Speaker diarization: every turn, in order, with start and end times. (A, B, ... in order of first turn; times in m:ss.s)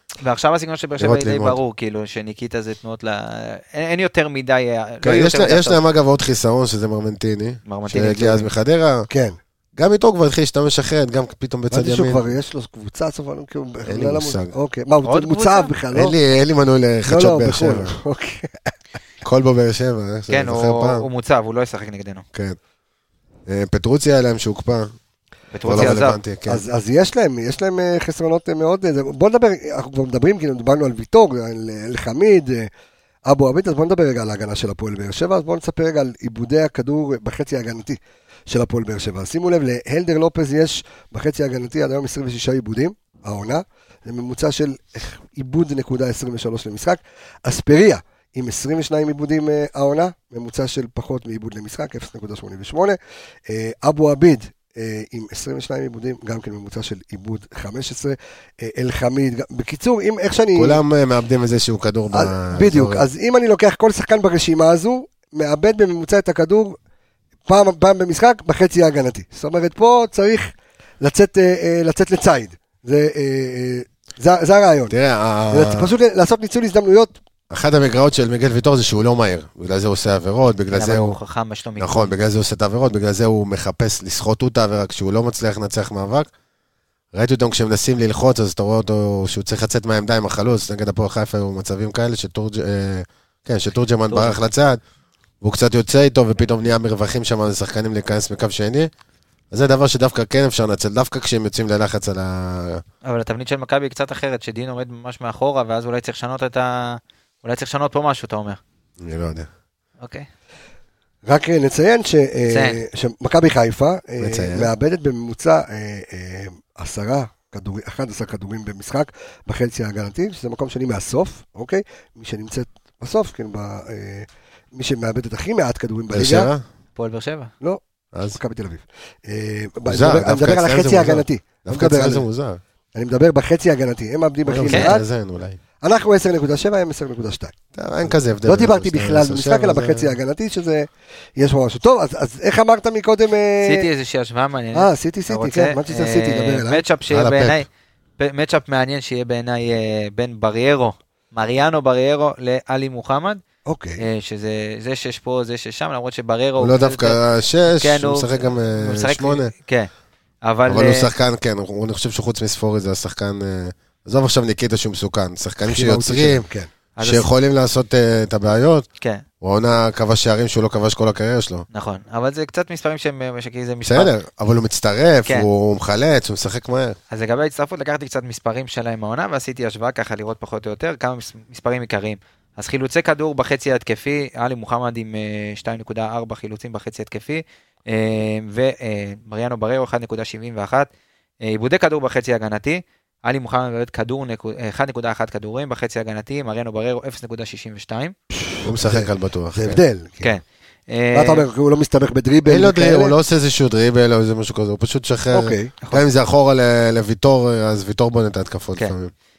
0:00.2-0:05.8 A
0:01.0-0:01.6 B
0:05.0-0:09.1 B
0:07.6-0:08.5 A
0:09.1-0:09.4 C
0:09.8-0:12.3 B
0:11.7-0:16.2 C
0:13.9-0:14.6 B
0:15.0-0:15.7 A
0:15.9-0:18.0 B
0:17.1-0:18.7 C
0:19.2-0:21.1 B
0:20.3-0:22.2 A
0:23.5-0:24.9 B
0:25.5-0:26.2 A
0:25.6-0:26.6 B
0:25.7-0:32.7 C
0:33.3-1:00.8 C
1:00.6-1:03.0 B
1:02.1-1:06.8 C
1:07.5-1:15.0 C
1:14.9-1:15.9 B
1:15.5-1:17.2 C
1:17.5-1:21.2 B
1:20.7-1:22.1 A
1:21.8-1:26.3 B
1:27.1-1:34.8 B
1:34.1-1:34.4 A
1:35.4-1:38.9 B
1:39.5-1:42.8 B
1:43.0-1:48.6 A
1:49.0-1:49.5 B
1:50.0-1:50.3 A
1:51.3-2:06.5 C
1:52.5-1:52.8 A
1:54.2-1:54.7 B
2:06.1-2:06.6 B
2:07.0-2:07.5 A
2:07.6-2:12.3 C
2:08.1-2:08.4 B
2:09.9-2:12.6 B
2:13.0-2:15.0 C
2:14.5-2:15.6 B
2:15.8-2:23.9 C
2:17.7-2:20.1 B
2:23.6-2:27.7 A
2:24.7-2:26.8 C
2:27.1-2:27.6 B
2:28.2-2:33.4 A
2:33.7-2:34.0 C
2:34.0-2:39.9 A
2:36.6-2:39.5 B
2:40.4-2:41.1 A
2:40.7-2:46.5 B
2:45.6-2:46.7 C
2:47.0-2:47.3 A
2:47.0-2:48.9 B
2:49.4-2:51.7 B
2:51.7-2:54.1 A
2:53.8-2:57.0 B
2:57.1-3:10.9 A
3:11.4-3:18.2 A
3:18.3-3:20.4 C
3:18.6-3:19.8 B
3:20.2-3:21.5 A
3:21.1-3:23.2 C
3:22.5-3:29.1 B
3:25.3-3:25.7 C